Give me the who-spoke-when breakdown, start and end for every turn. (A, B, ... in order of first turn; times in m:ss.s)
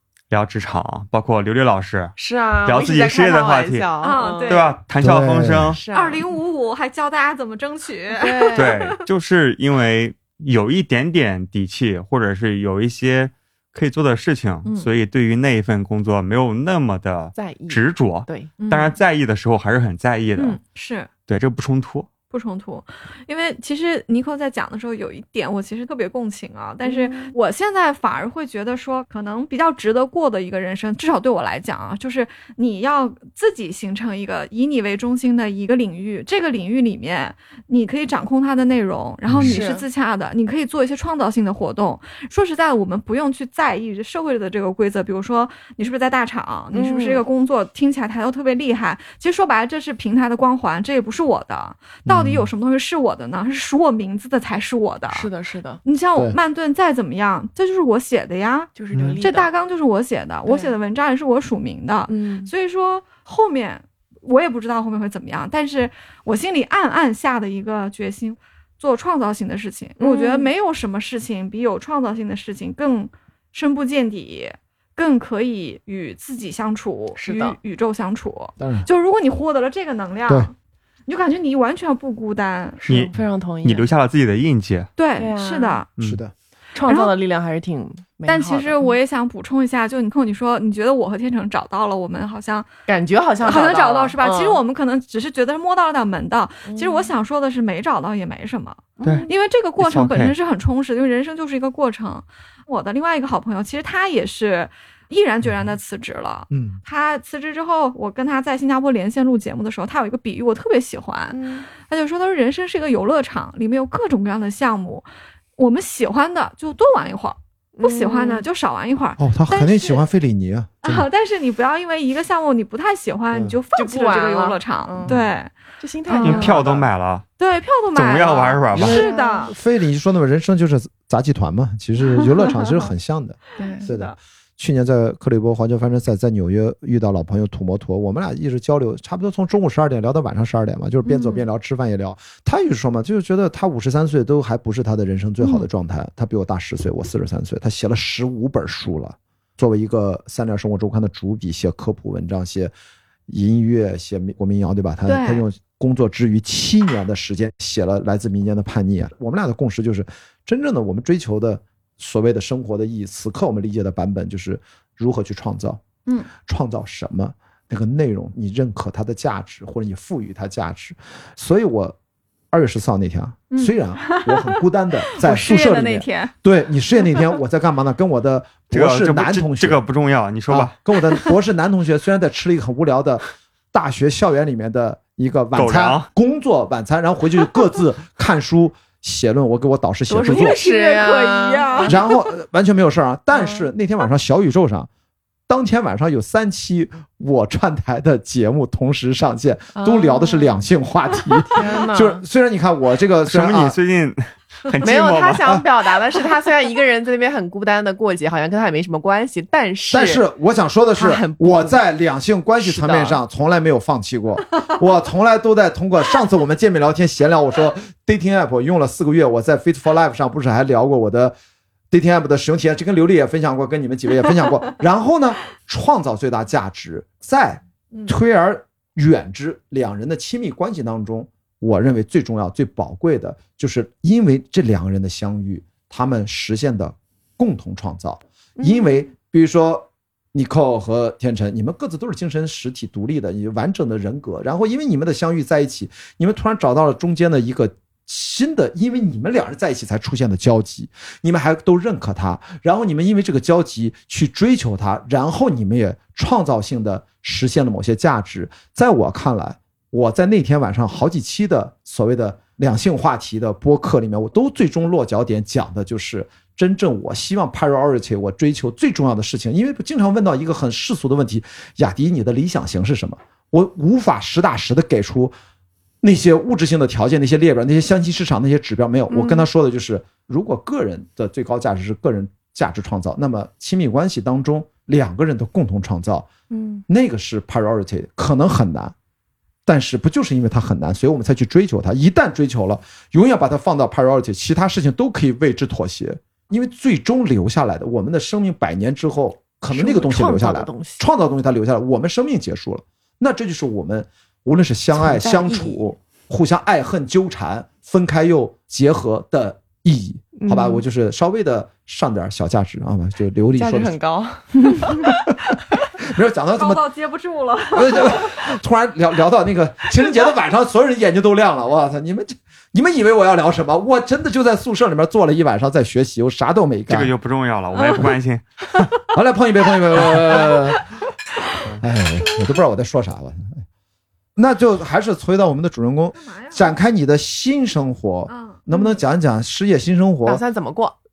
0:00.3-0:05.8 A
0:02.2-0:04.6 B
0:04.0-0:04.8 C
0:05.0-0:05.8 D
0:05.7-0:06.3 B
0:05.9-0:09.0 C
0:08.1-0:08.8 B
0:08.5-0:20.6 A
0:17.4-0:18.5 B
0:18.6-0:19.0 C
0:20.4-0:21.1 C
0:21.3-0:22.1 A
0:22.3-0:55.3 C
0:26.8-0:27.4 B
0:39.3-0:39.6 D
0:39.4-0:39.8 B
0:46.7-0:47.2 B
0:52.1-0:52.5 D
0:55.1-0:55.8 B
0:55.8-1:20.5 C
0:58.8-0:59.5 B
1:00.5-1:00.8 B
1:02.1-1:02.5 B
1:10.0-1:10.5 B
1:17.2-1:17.6 B
1:18.6-1:18.9 D
1:21.1-1:22.8 C
1:22.8-1:23.9 B
1:22.9-1:24.9 A
1:25.0-1:25.9 C
1:25.2-1:25.8 B
1:26.0-1:26.2 A
1:26.0-1:26.3 D
1:26.7-1:29.0 B
1:26.8-1:27.1 C
1:28.3-1:32.7 C
1:32.9-1:34.6 B
1:33.4-1:55.1 C
1:36.7-1:37.1 B
1:39.0-1:39.3 B
1:39.8-1:40.4 A
1:45.4-1:45.7 D
1:46.5-1:46.8 D
1:51.3-1:51.7 B
1:55.6-2:00.0 C
1:57.8-1:58.5 B
1:59.2-2:01.1 D
2:00.8-2:05.5 C
2:03.3-2:03.6 D
2:03.8-2:05.2 B
2:05.8-2:06.9 B
2:06.1-2:06.6 C
2:06.2-2:07.2 A
2:07.4-2:09.6 C
2:07.9-2:09.0 A
2:08.7-2:32.7 D
2:08.8-2:09.5 B
2:12.2-2:12.5 C
2:13.6-2:13.9 B
2:13.6-2:14.2 C
2:21.0-2:21.4 C
2:25.4-2:25.7 C
2:33.3-2:45.8 D
2:35.1-2:35.4 C
2:46.4-2:52.0 D
2:52.5-2:59.8 D
2:53.5-2:56.3 C
2:58.7-3:00.8 A
3:00.5-3:10.6 D
3:05.6-3:06.1 A
3:10.1-3:12.0 B
3:10.2-3:12.2 C
3:11.8-3:14.9 D
3:13.3-3:13.7 B
3:15.5-3:23.8 D
3:19.8-3:20.6 B
3:21.5-3:22.2 B
3:23.3-3:25.6 A
3:24.8-3:30.2 B
3:29.9-3:41.4 D
3:31.0-3:31.8 B
3:32.6-3:33.2 B
3:41.9-4:35.3 D
3:58.6-3:59.1 B
4:36.0-4:46.3 D
4:39.1-4:39.4 B
4:46.5-4:46.8 B
4:46.9-4:48.9 D
4:49.7-5:14.0 D
4:59.7-5:01.0 B
5:04.9-5:05.8 B
5:10.4-5:10.8 B
5:13.6-5:15.0 B
5:15.0-5:16.8 D
5:16.6-5:18.5 C
5:17.7-5:27.1 D
5:26.9-5:28.4 A
5:27.8-5:28.1 C
5:29.1-5:30.8 D
5:31.7-5:33.6 D
5:34.4-5:40.4 D
5:36.2-5:36.8 C
5:38.3-5:38.6 C
5:40.2-5:41.0 B